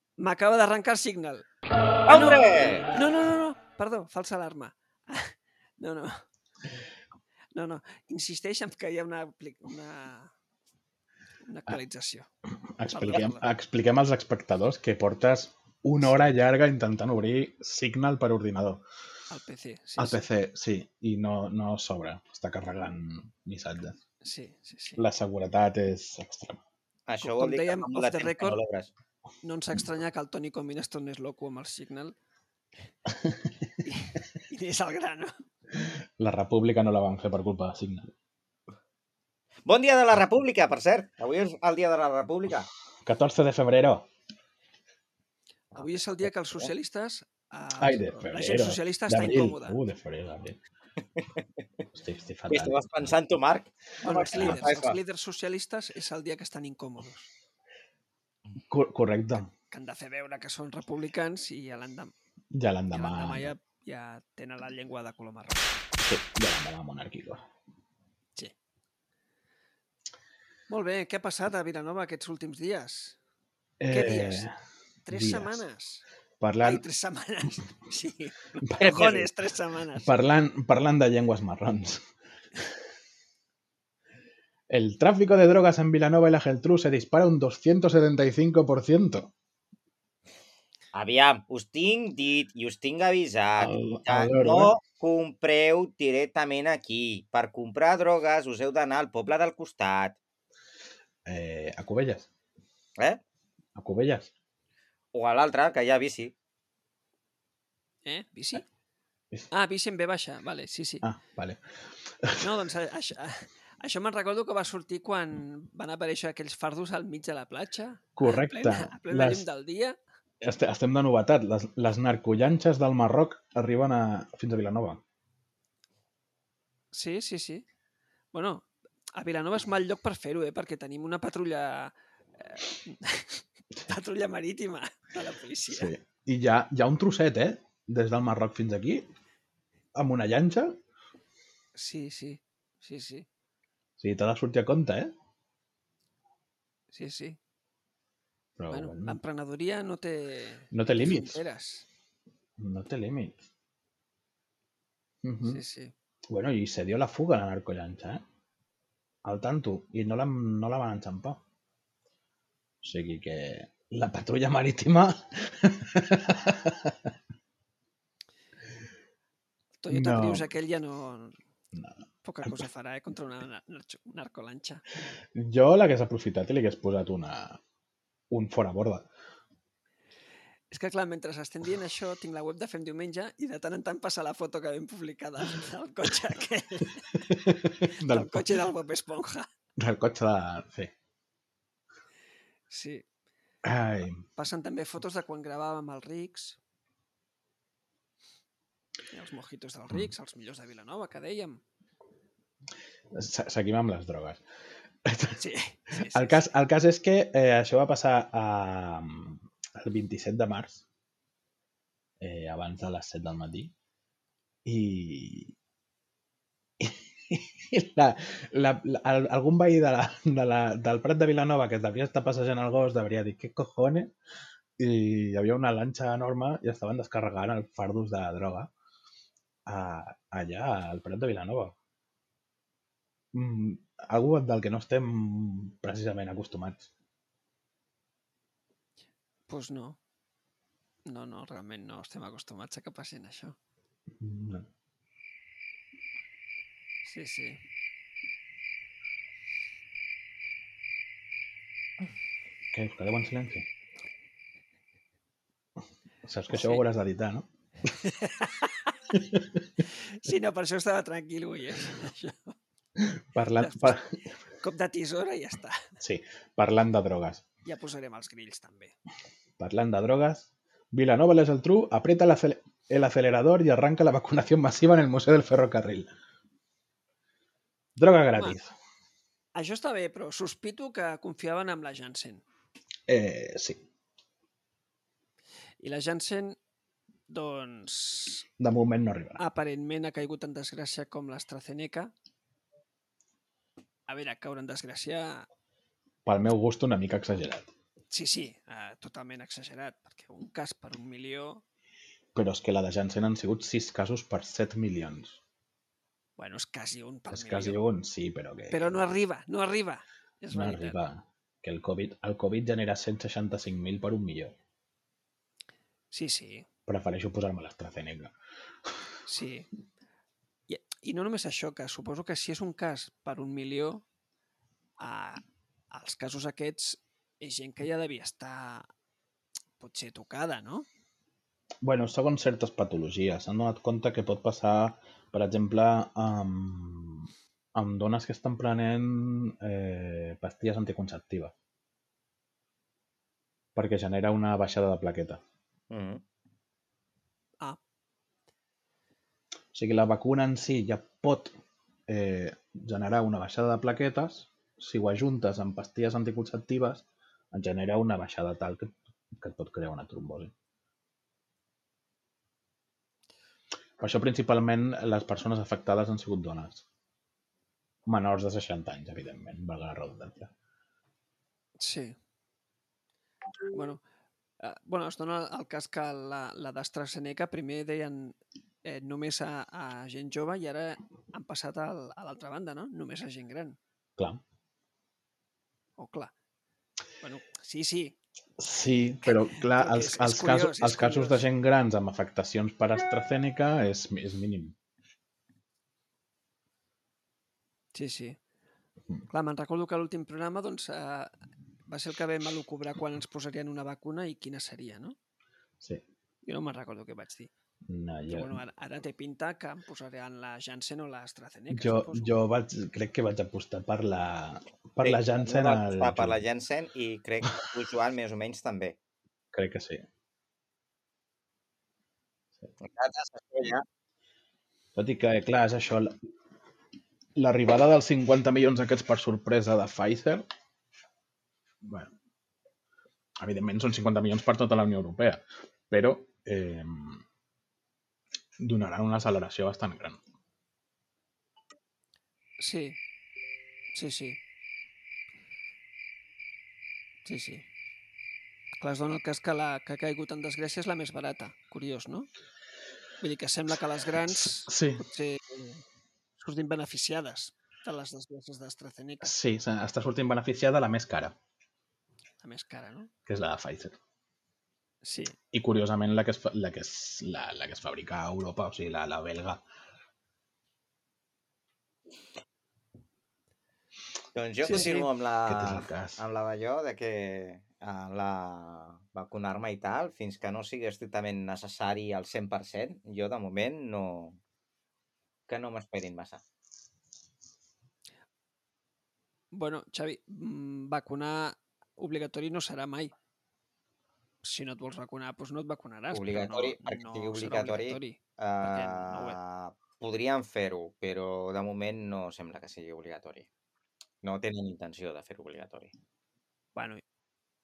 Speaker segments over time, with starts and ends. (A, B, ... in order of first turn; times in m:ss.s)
0:00.2-0:01.4 A
0:02.1-0:02.9 B
0:02.1-0:06.2 A
0:07.6-0:10.3 A
0:11.4-0:12.3 A
0:12.8-0:18.8 C
0:12.9-0:13.4 A
0:19.3-0:20.2 A
0:20.0-0:24.0 C
0:24.2-0:25.0 A
0:25.0-0:26.6 C
0:27.1-0:28.9 B
0:27.2-0:28.6 A
0:29.4-0:32.2 A
0:33.8-0:35.4 A
0:35.8-0:38.1 C
0:39.6-0:42.7 B
0:43.0-0:44.1 C
0:45.8-0:49.8 A
0:47.8-0:50.6 C
0:51.9-0:53.1 C
0:52.5-0:55.0 B
0:54.0-0:57.3 A
0:54.3-0:54.6 C
0:58.7-0:59.5 C
0:59.7-1:02.1 A
1:02.5-1:03.5 C
1:02.9-1:05.7 A
1:06.0-1:07.4 C
1:10.7-1:13.2 A
1:13.8-1:14.5 C
1:13.9-1:14.5 A
1:15.0-1:16.0 A
1:15.1-1:15.6 C
1:16.4-1:16.8 C
1:16.6-1:20.2 A
1:18.6-1:19.2 C
1:18.8-1:19.3 B
1:20.0-1:22.1 C
1:24.7-1:29.3 C
1:30.9-1:40.2 B
1:33.6-1:34.7 C
1:41.3-1:42.3 C
1:43.8-1:44.3 C
1:45.1-1:46.3 B
1:48.0-1:48.6 A
1:49.5-1:51.0 A
1:51.0-1:52.5 C
1:52.4-2:00.0 A
1:58.2-1:59.5 C
2:00.4-2:05.0 C
2:06.9-2:07.7 A
2:08.3-2:15.9 A
2:15.7-2:19.1 C
2:20.0-2:20.8 C
2:21.8-2:23.3 A
2:24.0-2:25.1 C
2:26.9-2:27.4 A
2:28.6-2:29.2 C
2:28.7-2:31.9 A
2:30.7-2:31.4 C
2:32.6-2:33.4 C
2:35.2-2:35.6 C
2:35.4-2:35.9 A
2:36.3-2:38.2 C
2:39.2-2:41.4 C
2:42.8-2:47.1 C
2:49.8-2:51.4 A
2:49.9-2:50.5 C
2:51.7-2:52.7 C
2:52.2-2:54.8 A
2:55.3-2:57.6 C
2:58.3-2:59.1 C
3:00.7-3:07.1 A
3:07.2-3:08.6 C
3:08.0-3:09.5 A
3:09.8-3:10.9 C
3:12.7-3:13.0 A
3:13.6-3:14.2 C
3:14.4-3:16.6 A
3:19.1-3:21.6 A
3:23.1-3:24.4 C
3:25.0-3:25.4 C
3:25.4-3:26.5 A
3:26.1-3:30.8 C
3:32.2-3:33.7 C
3:34.6-3:35.6 C
3:36.8-3:44.1 C
3:44.8-3:48.7 C
3:49.6-3:51.8 C
3:53.3-3:56.9 C
3:59.5-4:00.0 A
4:01.1-4:03.6 A
4:04.2-4:04.7 C
4:07.0-4:07.6 A
4:12.7-4:13.6 C
4:16.2-4:17.5 C
4:16.5-4:16.9 A
4:18.0-4:19.0 A
4:19.1-4:19.6 C
4:20.0-4:22.6 A
4:23.0-4:24.1 C
4:23.6-4:24.0 A
4:24.6-4:25.8 A
4:26.0-4:27.4 C
4:27.6-4:29.0 A
4:29.6-4:36.1 C
4:38.0-4:38.8 C
4:39.6-4:42.4 A
4:43.1-4:43.9 C
4:45.8-4:46.6 A
4:47.3-4:48.5 A
4:48.6-4:49.4 C
4:49.4-4:52.1 A
4:54.1-4:55.5 A
4:56.2-4:57.7 C
4:58.1-5:01.6 A
5:02.4-5:05.4 C
5:06.4-5:07.8 A
5:07.3-5:09.0 C
5:08.7-5:11.0 A
5:10.5-5:14.6 C
5:16.1-5:16.6 A
5:16.9-5:18.3 C
5:19.2-5:19.7 A
5:20.7-5:24.0 A
5:25.0-5:28.9 A
5:29.8-5:30.9 A
5:31.8-5:41.5 C
5:43.8-5:45.4 C
5:45.9-5:46.2 B
5:49.7-5:51.6 C
5:52.1-6:00.5 C
6:04.0-6:06.8 C
6:08.1-6:10.5 C
6:11.8-6:12.2 A
6:13.7-6:14.0 A
6:14.6-6:23.8 A
6:24.2-6:24.4 C
6:26.0-6:26.3 A
6:27.2-6:28.2 A
6:28.6-6:34.8 C
6:29.2-6:31.4 A
6:37.9-6:38.4 A
6:39.3-6:41.3 A
6:41.9-6:45.2 A
6:46.4-6:47.5 A
6:47.9-6:48.6 C
6:48.3-6:52.3 A
6:51.7-6:56.4 C
6:55.0-6:59.0 B
6:59.5-7:00.0 C
7:02.8-7:03.8 B
7:05.0-7:06.2 C
7:07.4-7:10.5 C
7:11.8-7:12.1 C
7:13.4-7:17.2 C
7:18.6-7:20.2 C
7:22.6-7:23.0 A
7:23.9-7:24.4 A
7:27.2-7:27.6 A
7:28.8-7:32.3 A
7:33.2-7:35.8 A
7:34.6-7:35.0 C
7:36.4-7:39.3 A
7:39.2-7:41.4 C
7:42.4-7:43.1 A
7:43.2-7:44.0 C
7:45.0-7:45.4 A
7:45.5-7:49.6 C
7:54.4-8:04.4 B
7:54.6-7:55.1 A
7:54.7-7:56.2 C
8:05.5-8:06.4 B
8:09.5-8:13.1 A
8:14.4-8:19.4 A
8:16.1-8:23.5 B
8:24.2-8:25.9 B
8:26.8-8:27.0 A